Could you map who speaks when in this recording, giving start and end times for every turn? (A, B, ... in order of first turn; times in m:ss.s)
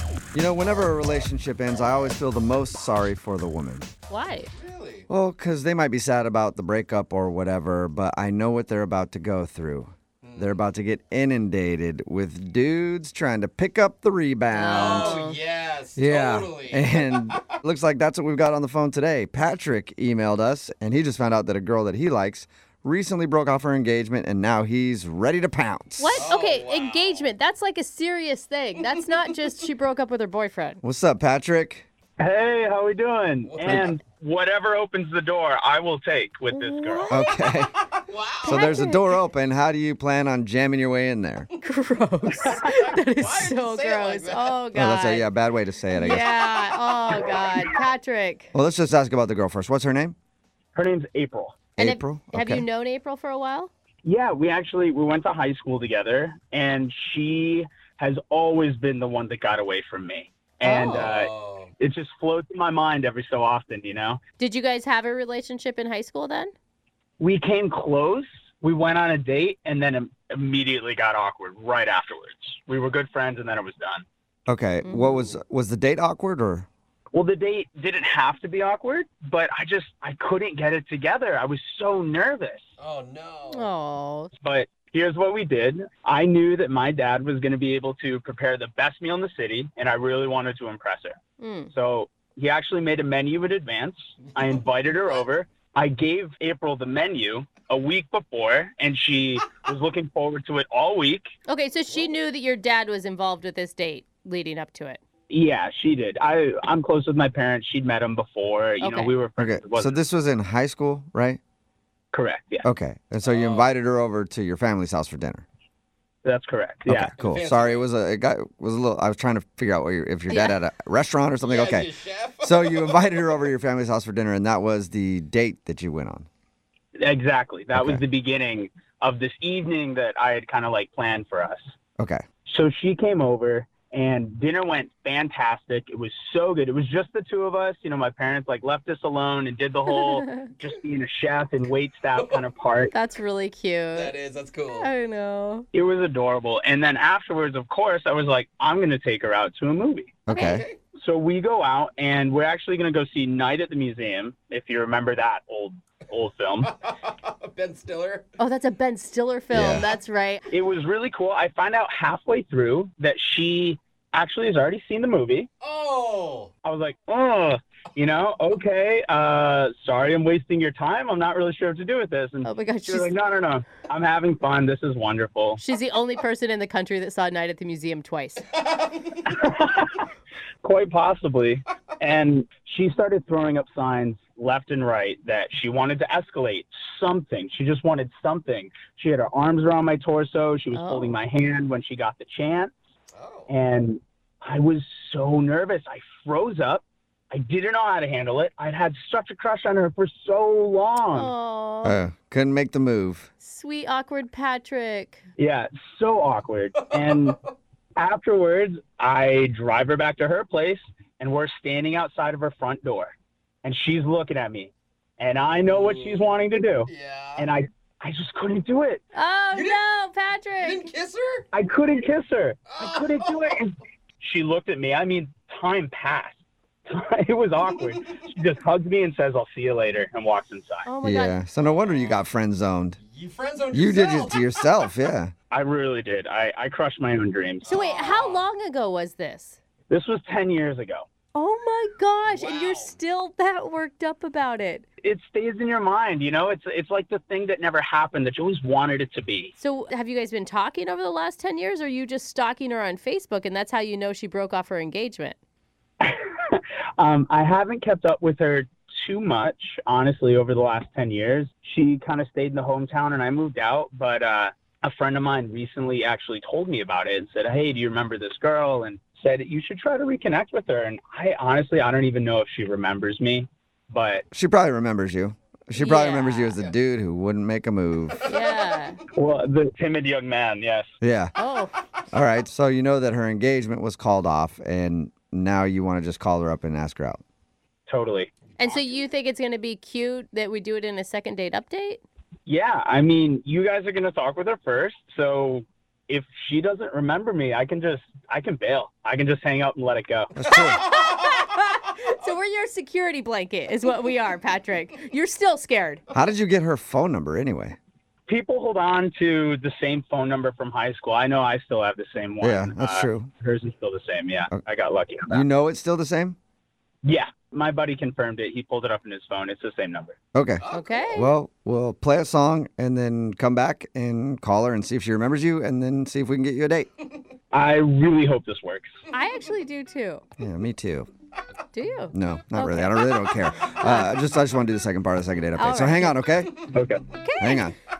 0:00.3-0:03.9 A
0:04.1-0:04.5 B
0:04.5-0:05.0 C
0:05.1-0:15.2 A
0:10.2-0:10.6 C
0:14.5-0:15.4 B
0:14.7-0:17.5 C
0:15.9-0:26.2 A
0:26.0-0:30.8 B
0:26.1-0:27.3 C
0:28.8-0:29.3 C
0:30.8-0:31.8 A
0:32.2-0:37.1 D
0:33.5-0:33.9 C
0:36.5-0:37.3 B
0:37.1-0:37.7 A
0:37.8-0:38.6 C
0:38.4-0:41.5 A
0:38.4-0:39.2 B
0:41.6-0:45.3 B
0:42.3-0:44.6 C
0:44.7-0:46.3 A
0:45.9-0:48.5 B
0:48.5-0:50.1 A
0:50.7-0:51.6 D
0:51.8-0:52.6 A
0:51.8-0:53.7 B
0:54.0-1:04.2 D
1:00.6-1:01.0 B
1:00.7-1:01.7 C
1:04.4-1:06.5 B
1:07.2-1:14.0 D
1:14.5-1:16.7 A
1:14.8-1:15.3 B
1:17.1-1:22.6 D
1:22.8-1:23.7 C
1:23.5-1:24.3 B
1:24.4-1:31.2 D
1:31.4-1:31.7 B
1:31.7-1:41.3 D
1:41.4-1:45.0 B
1:45.3-1:50.0 D
1:48.8-1:49.1 B
1:49.4-1:51.4 A
1:52.1-1:52.6 D
1:52.6-1:55.4 A
1:53.2-1:53.7 C
1:56.2-1:57.1 D
1:56.8-2:06.3 A
1:57.2-1:57.8 C
2:00.3-2:00.6 B
2:01.4-2:03.3 C
2:07.0-2:11.6 D
2:07.7-2:08.0 A
2:12.0-2:12.2 A
2:12.4-2:22.9 D
2:19.9-2:20.4 B
2:22.2-2:22.4 C
2:22.9-2:24.1 B
2:23.9-2:24.9 C
2:24.7-2:25.7 B
2:25.7-2:30.2 D
2:30.2-2:30.6 A
2:30.3-2:30.6 B
2:30.4-2:30.8 C
2:30.9-2:36.7 D
2:36.8-2:38.3 C
2:38.4-2:40.4 B
2:39.5-2:39.8 A
2:40.5-2:45.5 D
2:45.6-2:46.5 C
2:46.6-2:55.6 D
2:52.4-2:53.1 B
2:55.6-2:58.4 B
2:58.6-2:59.2 C
2:59.3-3:00.0 D
3:00.6-3:12.7 D
3:10.7-3:11.2 B
3:13.1-3:13.5 C
3:13.5-3:21.3 D
3:21.1-3:22.0 B
3:21.8-3:23.3 A
3:23.4-3:25.2 B
3:25.4-3:27.4 D
3:26.8-3:27.3 C
3:28.0-3:39.0 D
3:35.7-3:36.3 C
3:36.9-3:37.5 C
3:39.1-3:40.8 B
3:39.5-3:39.8 C
3:40.6-3:41.4 C
3:41.5-3:46.4 D
3:42.7-3:43.5 C
3:46.9-3:50.8 D
3:50.8-3:51.4 B
3:51.0-3:53.0 A
3:51.6-3:52.2 C
3:53.0-3:54.8 C
3:53.7-3:55.3 A
3:55.5-3:57.8 D
3:57.6-3:58.5 C
3:57.7-3:59.6 B
3:59.9-4:01.0 D
4:01.3-4:04.8 B
4:02.2-4:03.0 C
4:05.0-4:09.5 D
4:09.6-4:15.4 B
4:16.0-4:34.2 D
4:34.3-4:38.3 A
4:35.7-4:36.6 B
4:38.2-4:39.0 B
4:39.1-4:40.9 D
4:41.0-4:41.3 A
4:41.4-4:41.8 B
4:42.1-4:47.2 A
4:47.9-4:48.3 D
4:48.6-4:52.0 B
4:52.4-5:00.3 D
5:00.4-5:00.8 A
5:00.7-5:01.4 C
5:00.8-5:06.0 B
5:06.1-5:07.8 A
5:08.3-5:15.4 D
5:12.4-5:13.3 A
5:15.3-5:16.4 A
5:17.0-5:20.2 D
5:20.3-5:26.9 A
5:20.6-5:21.3 C
5:20.7-5:21.3 B
5:27.5-5:28.9 D
5:29.1-5:30.2 B
5:30.4-5:31.1 A
5:31.7-5:33.0 B
5:32.1-5:36.5 A
5:33.8-5:34.1 B
5:35.6-5:36.2 B
5:36.7-5:37.0 D
5:37.2-5:37.7 B
5:37.4-5:37.7 A